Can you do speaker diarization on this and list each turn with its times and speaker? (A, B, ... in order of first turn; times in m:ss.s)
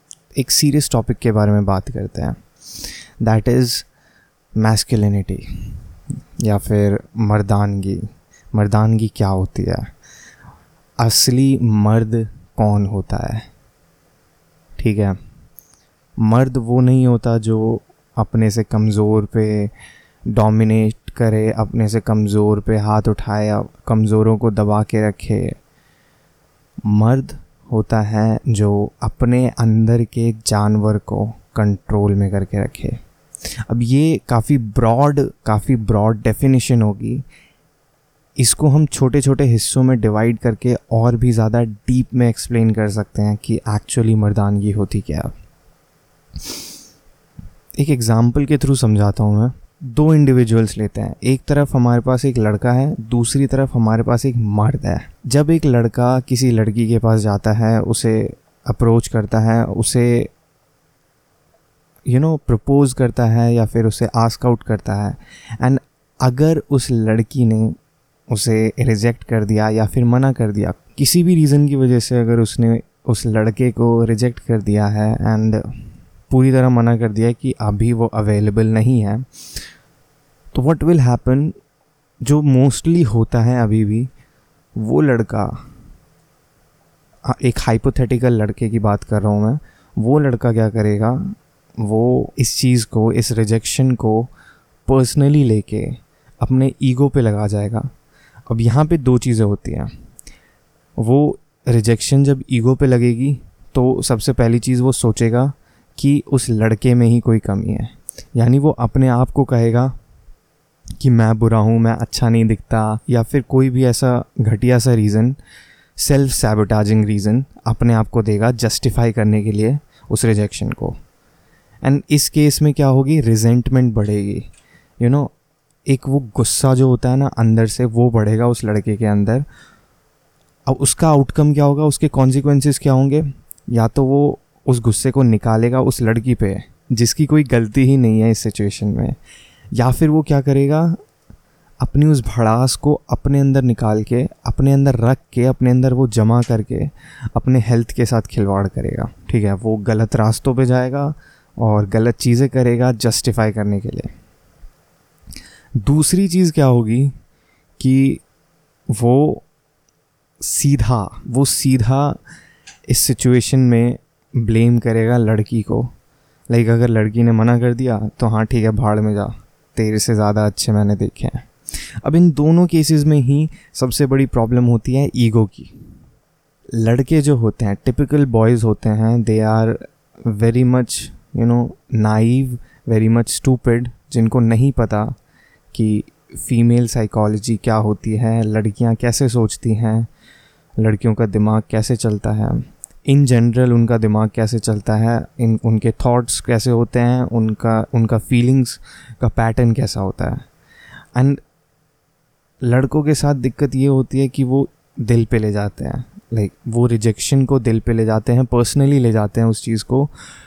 0:00.4-0:02.4 A
0:03.2-0:03.9 A
0:04.6-0:05.5 A
0:06.4-0:08.0 A
0:08.5-0:09.9 A
0:11.0-0:13.5 A
0:14.8-0:15.2 A
0:16.2-0:19.7 A
0:20.3-0:25.6 A
0:26.9-0:33.0 A
0:33.7-0:37.2 A
0:38.4-0:45.3 A
0:47.8-1:00.3 A
1:02.1-1:07.8 A
1:08.3-1:15.7 A
1:16.3-1:19.2 A
1:20.5-1:21.5 A
1:22.2-1:24.1 A
1:24.8-1:25.6 A
1:27.3-1:34.3 A
1:34.9-1:37.9 A
1:38.5-1:39.9 A
1:41.0-1:49.9 A
1:51.0-1:55.4 A
1:56.0-2:01.0 A
2:01.8-2:04.5 A
2:05.0-2:05.3 A
2:05.9-2:09.5 A
2:10.7-2:19.2 A
2:19.7-2:21.0 A
2:21.8-2:34.1 A
2:35.8-2:37.1 A
2:37.8-2:38.2 A
2:38.9-2:39.4 A
2:40.4-2:42.2 A
2:42.9-2:45.9 A
2:46.5-2:51.5 A
2:52.0-2:55.7 A
2:56.8-3:05.1 A
3:05.7-3:10.1 A
3:10.8-3:20.4 A
3:21.2-3:21.4 A
3:22.6-3:30.1 A